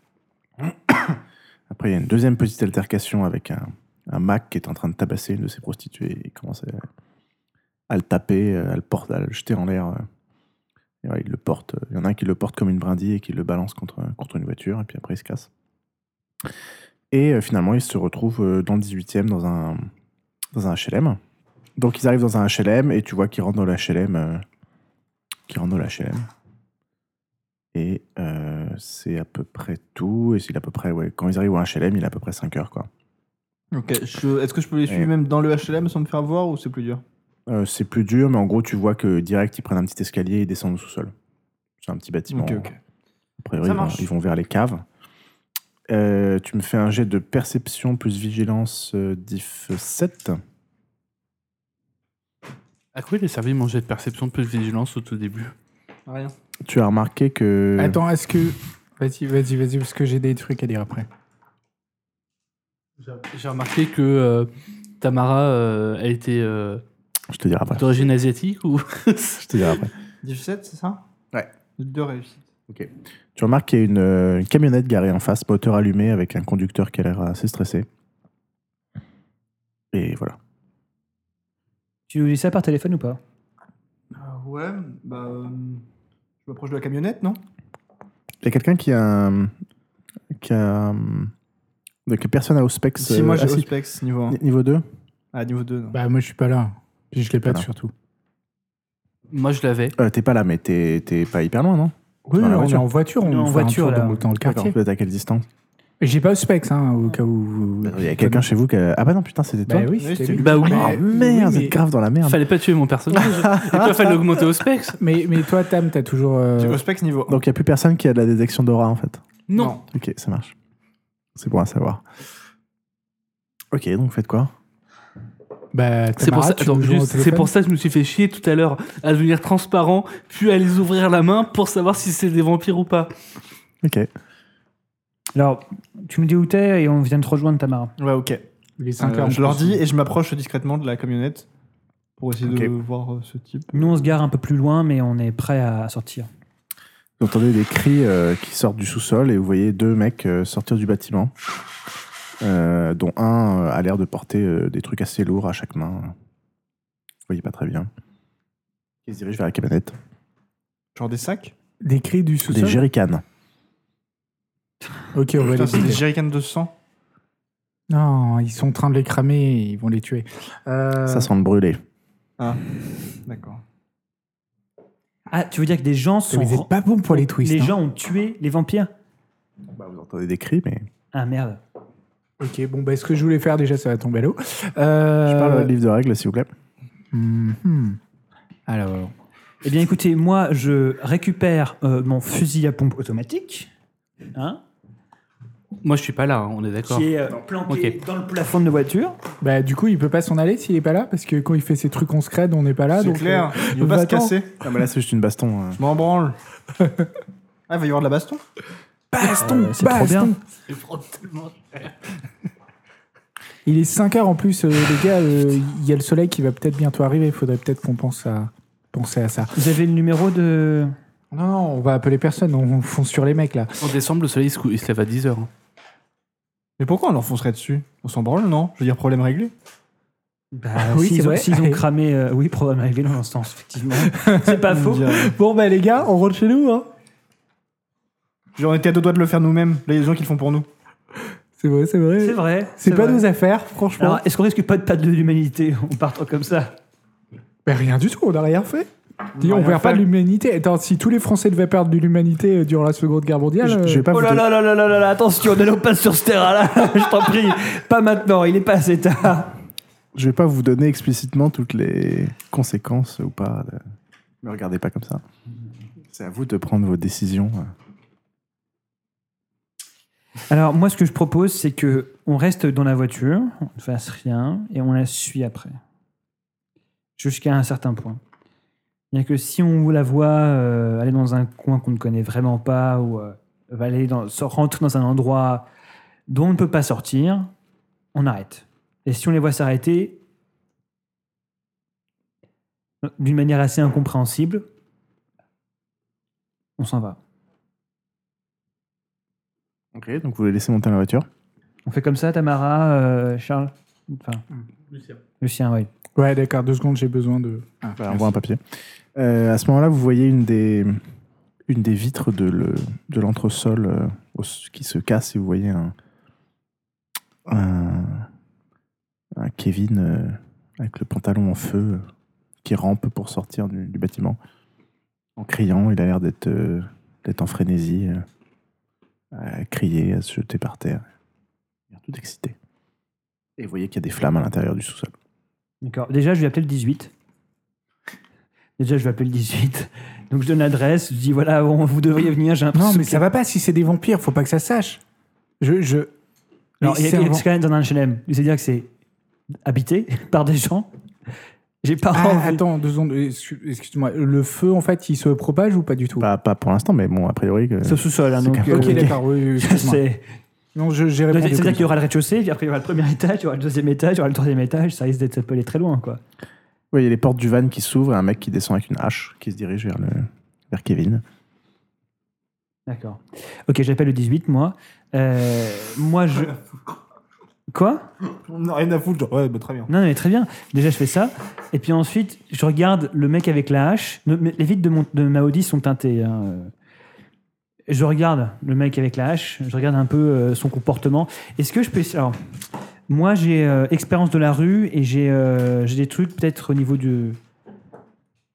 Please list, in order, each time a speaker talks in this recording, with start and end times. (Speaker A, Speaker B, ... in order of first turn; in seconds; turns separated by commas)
Speaker A: 0.6-6.9, Speaker A: 7.9-10.1, Speaker A: 11.0-15.5, Speaker A: 17.1-19.9, Speaker A: 20.5-21.2, Speaker A: 21.8-24.4, Speaker A: 25.5-26.3, Speaker A: 27.7-32.9, Speaker B: 33.7-37.0, Speaker A: 37.5-41.1, Speaker A: 41.8-42.7, Speaker B: 42.3-42.8, Speaker A: 43.4-44.8, Speaker B: 43.6-44.1, Speaker A: 45.9-50.4, Speaker C: 52.9-55.5, Speaker B: 56.1-56.4, Speaker A: 56.6-58.0, Speaker D: 57.8-61.1, Speaker C: 63.0-66.8, Speaker A: 67.3-68.1, Speaker C: 67.8-69.8, Speaker A: 69.4-69.9, Speaker B: 70.2-71.0, Speaker B: 71.8-72.5, Speaker A: 72.7-77.9, Speaker A: 79.9-80.4, Speaker E: 82.1-83.2, Speaker B: 84.1-85.8, Speaker B: 86.4-87.4, Speaker A: 88.4-89.5, Speaker A: 90.3-91.3, Speaker A: 92.1-93.7, Speaker B: 93.0-94.4, Speaker A: 94.3-94.8, Speaker B: 95.3-96.0, Speaker D: 95.9-97.9, Speaker C: 99.3-100.0, Speaker A: 100.0-102.9, Speaker D: 102.3-104.8, Speaker E: 103.2-104.2, Speaker A: 104.4-105.5, Speaker D: 106.0-108.5, Speaker A: 107.8-109.9, Speaker D: 109.7-111.8, Speaker B: 110.0-111.0, Speaker C: 110.4-111.0, Speaker A: 110.7-112.4, Speaker C: 112.2-115.0, Speaker A: 113.1-114.4, Speaker D: 115.0-116.8, Speaker B: 116.6-117.4, Speaker A: 117.3-119.2, Speaker C: 119.5-119.8, Speaker B: 119.6-119.8, Speaker A: 119.9-120.5, Speaker A: 121.4-122.0, Speaker A: 123.7-124.5, Speaker D: 125.7-127.5, Speaker C: 126.2-133.1, Speaker A: 133.8-134.1, Speaker E: 135.4-137.9, Speaker B: 138.0-138.4, Speaker D: 138.8-139.8, Speaker B: 139.0-141.5, Speaker B: 142.2-144.1, Speaker A: 142.4-142.7, Speaker E: 143.7-146.3, Speaker A: 147.2-151.3, Speaker A: 152.4-156.1, Speaker A: 157.3-157.9, Speaker A: 159.1-159.9, Speaker B: 160.9-161.5, Speaker D: 161.8-162.8, Speaker A: 162.5-163.2, Speaker D: 165.1-166.0, Speaker B: 165.4-166.7, Speaker D: 167.9-171.3, Speaker A: 171.1-171.8, Speaker B: 172.4-173.6, Speaker E: 175.3-178.9, Speaker D: 176.3-177.8, Speaker A: 179.7-180.9, Speaker E: 181.1-181.6, Speaker D: 182.4-185.7, Speaker A: 185.3-186.5, Speaker D: 187.1-188.0, Speaker D: 188.7-189.1, Speaker E: 189.6-193.7, Speaker E: 194.3-194.6, Speaker C: 195.8-197.1, Speaker E: 196.9-199.2, Speaker C: 197.7-198.0, Speaker D: 199.4-204.4, Speaker B: 202.9-204.5, Speaker A: 204.6-205.8, Speaker B: 205.8-206.4, Speaker B: 207.7-208.4, Speaker D: 209.1-210.4, Speaker E: 209.2-210.3, Speaker C: 210.7-211.9, Speaker D: 213.7-219.6, Speaker E: 219.6-220.9, Speaker D: 221.3-223.8, Speaker C: 223.8-225.5, Speaker B: 226.8-229.5, Speaker E: 230.5-235.2, Speaker D: 230.8-231.8, Speaker D: 234.0-236.9, Speaker B: 234.7-235.3, Speaker B: 238.6-240.7, Speaker D: 241.6-244.2, Speaker E: 242.2-243.3, Speaker E: 244.0-246.8, Speaker D: 247.7-254.1, Speaker B: 249.4-250.1, Speaker A: 253.6-254.5, Speaker E: 254.1-259.6, Speaker A: 260.1-263.8, Speaker A: 264.4-265.2, Speaker A: 266.1-267.7, Speaker E: 270.5-275.8, Speaker E: 277.2-278.2, Speaker E: 279.1-285.7, Speaker E: 286.3-287.5, Speaker E: 288.1-290.2, Speaker E: 293.0-294.6, Speaker E: 296.8-297.2, Speaker A: 299.9-301.3, Speaker E: 301.9-304.4, Speaker E: 305.4-305.9, Speaker D: 306.2-308.3, Speaker A: 308.0-308.6, Speaker A: 309.1-311.0, Speaker A: 311.7-315.9, Speaker A: 317.5-318.3, Speaker A: 319.4-322.1, Speaker A: 322.6-324.4, Speaker A: 325.4-328.2, Speaker A: 329.3-331.0, Speaker A: 331.9-332.6, Speaker A: 333.6-335.1, Speaker E: 335.8-337.1, Speaker E: 338.8-343.2, Speaker D: 342.7-345.0, Speaker D: 345.6-346.1, Speaker D: 346.8-347.5, Speaker E: 346.8-348.9, Speaker E: 349.6-350.9, Speaker E: 351.8-352.6, Speaker D: 352.1-356.3, Speaker A: 356.2-359.2, Speaker E: 357.8-360.2, Speaker D: 358.6-360.0, Speaker D: 360.8-361.9, Speaker E: 361.3-366.2, Speaker A: 366.9-371.2, Speaker E: 372.9-376.6, Speaker E: 377.7-378.1, Speaker B: 378.5-379.9, Speaker E: 379.9-386.7, Speaker E: 387.9-392.4, Speaker E: 393.1-397.4